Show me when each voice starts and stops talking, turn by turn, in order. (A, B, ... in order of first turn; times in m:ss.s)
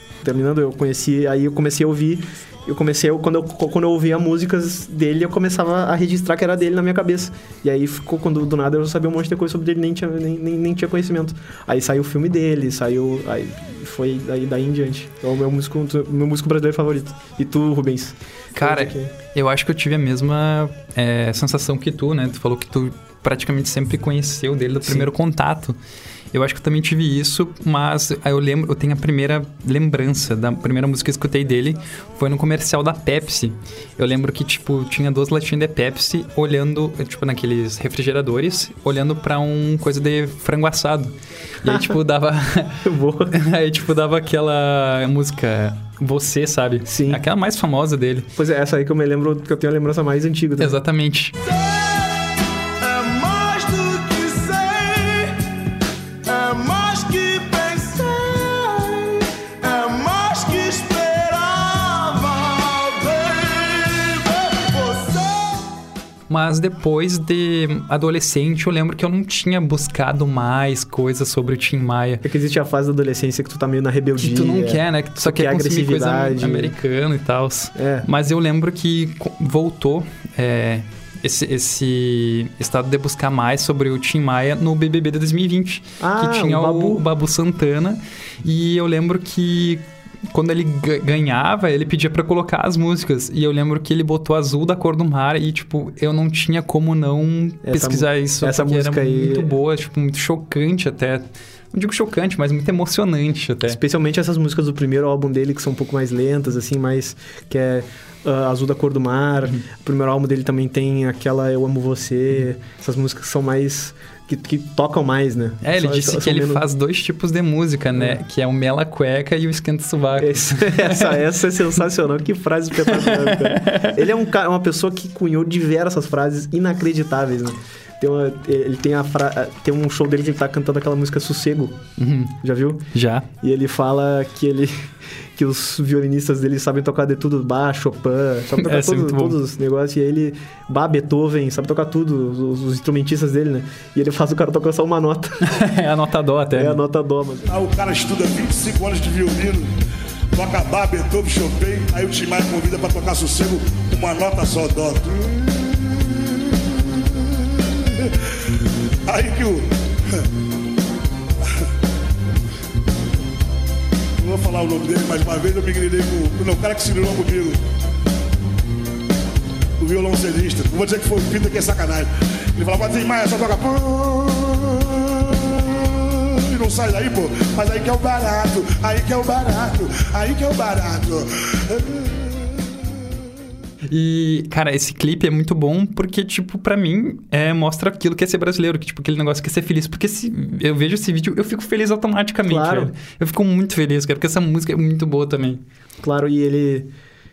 0:00.2-0:19.1 A
0:18.5-0:25.8 B
0:24.8-0:25.1 A
0:26.3-0:48.3 B
0:41.6-0:41.9 A
0:42.8-0:43.4 A
0:46.8-0:47.2 A
0:48.4-0:50.8 A
0:50.6-0:51.3 B
0:51.5-0:52.3 C
0:52.8-0:55.5 C
0:56.2-1:05.6 C
1:06.3-1:12.2 B
1:12.2-1:16.8 A
1:14.2-1:43.8 B
1:17.8-1:18.1 A
1:26.0-1:27.1 A
1:37.6-1:39.5 A
1:43.6-1:56.6 A
1:55.6-2:01.2 B
2:00.2-2:11.8 A
2:03.0-2:04.0 B
2:12.0-2:12.4 B
2:12.4-2:25.5 A
2:12.9-2:13.3 B
2:18.5-2:19.4 B
2:25.4-2:26.8 B
2:26.5-2:27.5 A
2:27.5-2:29.7 D
2:30.3-2:38.5 D
2:39.1-2:40.2 D
2:44.2-2:47.6 D
2:49.8-3:02.6 D
3:03.9-3:15.6 B
3:12.4-3:12.9 A
3:16.0-3:16.9 A